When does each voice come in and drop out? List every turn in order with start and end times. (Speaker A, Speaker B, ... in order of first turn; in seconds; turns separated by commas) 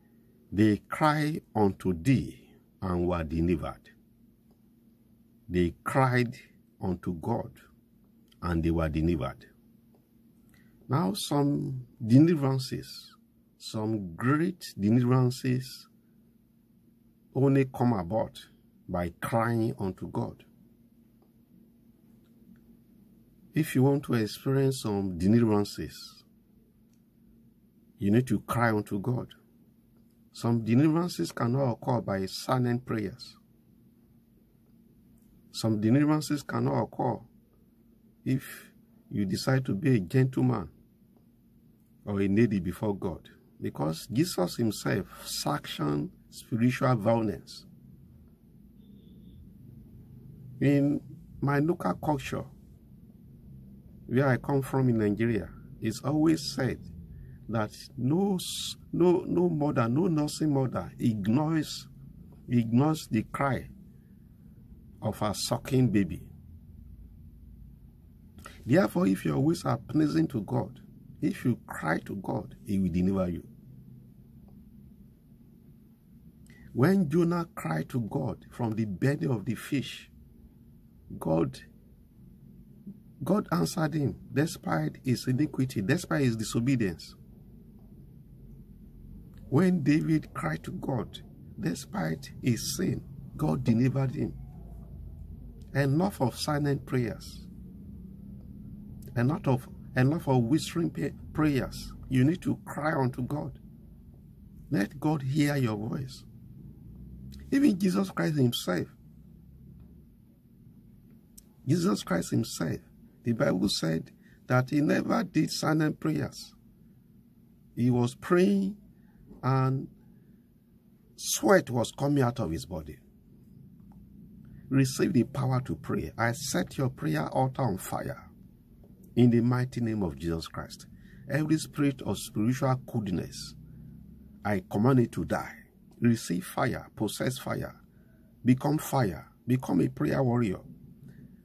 Speaker A: 0.5-3.9, Speaker A: 5.5-7.6, Speaker A: 8.4-9.5, Speaker A: 10.9-15.9, Speaker A: 17.3-20.5, Speaker A: 23.5-26.2, Speaker A: 28.0-29.4, Speaker A: 30.3-33.4, Speaker A: 35.5-37.3, Speaker A: 38.2-40.7, Speaker A: 42.1-47.7, Speaker A: 50.6-52.5, Speaker A: 54.1-56.9, Speaker A: 57.5-61.9, Speaker A: 62.5-63.7, Speaker A: 65.0-66.3, Speaker A: 68.7-73.5, Speaker A: 76.7-80.1, Speaker A: 81.1-81.6, Speaker A: 83.2-87.2, Speaker A: 89.5-94.4, Speaker A: 95.7-97.5, Speaker A: 99.2-103.6, Speaker A: 104.7-106.3, Speaker A: 107.5-108.9, Speaker A: 111.7-116.5, Speaker A: 117.8-118.8, Speaker A: 119.4-119.9, Speaker A: 121.2-123.0, Speaker A: 124.7-128.3, Speaker A: 129.2-133.6, Speaker A: 134.4-137.8, Speaker A: 138.4-140.7